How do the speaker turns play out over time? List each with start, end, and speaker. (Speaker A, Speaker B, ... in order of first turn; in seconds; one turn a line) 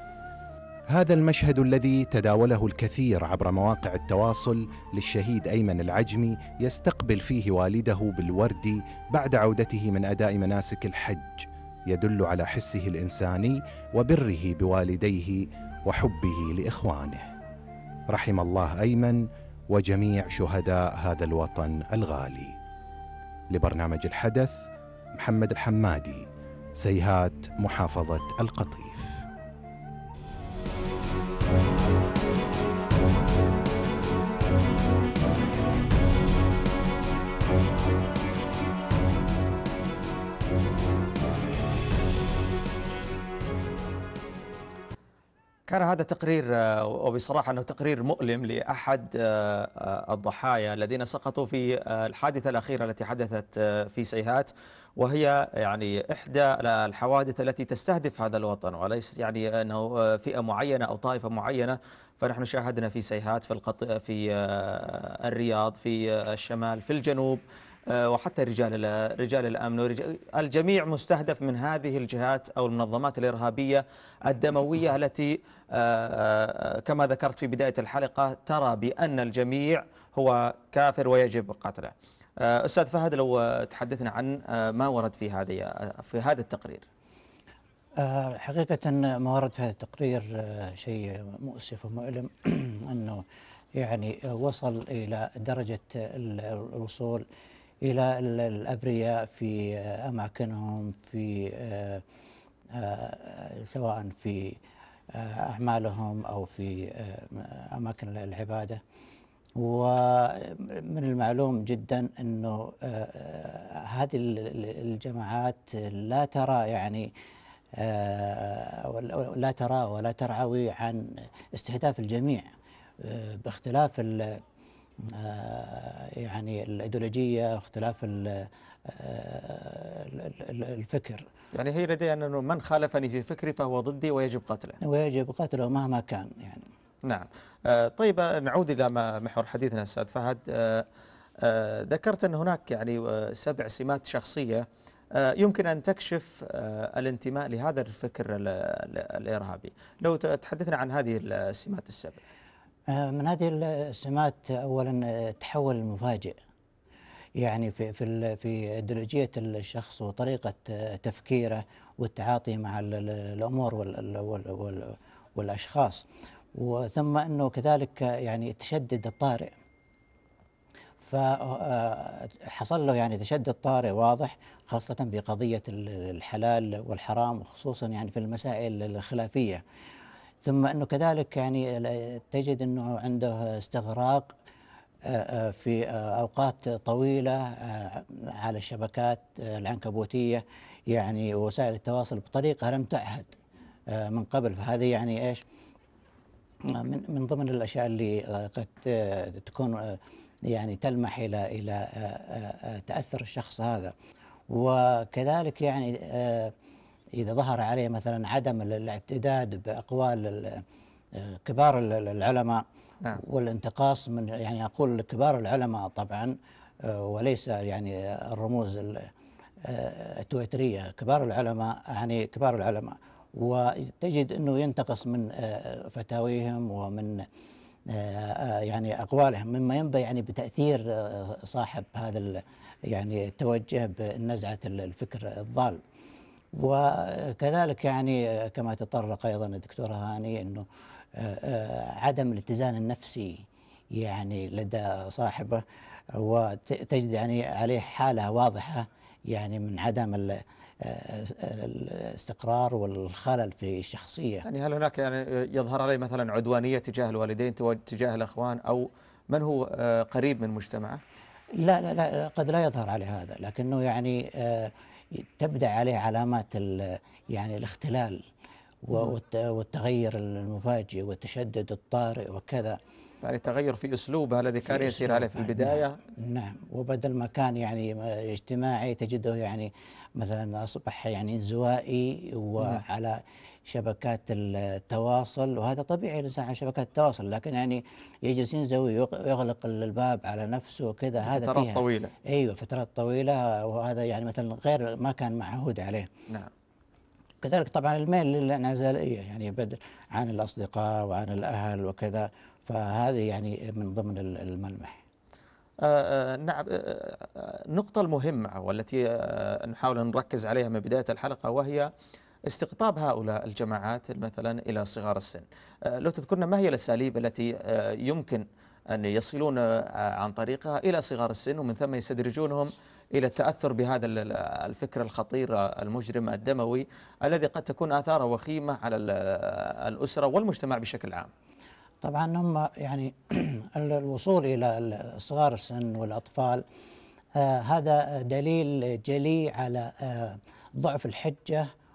Speaker A: 0.9-17.3
Speaker A: 18.1-22.5
Speaker A: 23.5-24.6
Speaker A: 25.2-26.2
Speaker A: 26.8-29.2
Speaker B: 45.7-86.8
Speaker C: 88.0-93.2
Speaker C: 93.8-97.2
Speaker C: 97.8-102.0
Speaker C: 102.7-104.6
Speaker C: 105.1-108.8
Speaker C: 109.6-117.1
Speaker C: 117.8-124.4
Speaker C: 125.0-131.3
Speaker B: 131.5-134.8
Speaker C: 134.8-136.7
Speaker B: 137.1-140.9
Speaker B: 141.4-152.2
Speaker C: 152.9-156.4
Speaker C: 157.4-169.5
Speaker C: 171.0-179.6
Speaker C: 180.4-184.3
Speaker C: 185.1-193.4
Speaker C: 193.9-195.4
Speaker C: 196.7-203.9
Speaker C: 204.5-206.6
Speaker C: 207.2-210.6
Speaker C: 211.2-212.6
Speaker C: 213.2-219.1
Speaker C: 219.6-227.3
Speaker C: 227.9-235.8
Speaker C: 236.6-245.6
Speaker C: 246.2-254.4
Speaker B: 254.4-261.0
Speaker C: 261.6-268.3
Speaker C: 268.8-272.8
Speaker B: 273.2-276.0
Speaker C: 274.6-296.1
Speaker B: 291.2-292.1
Speaker C: 297.4-305.0
Speaker B: 305.8-311.9
Speaker B: 312.5-331.3
Speaker C: 332.0-336.6
Speaker C: 337.4-341.7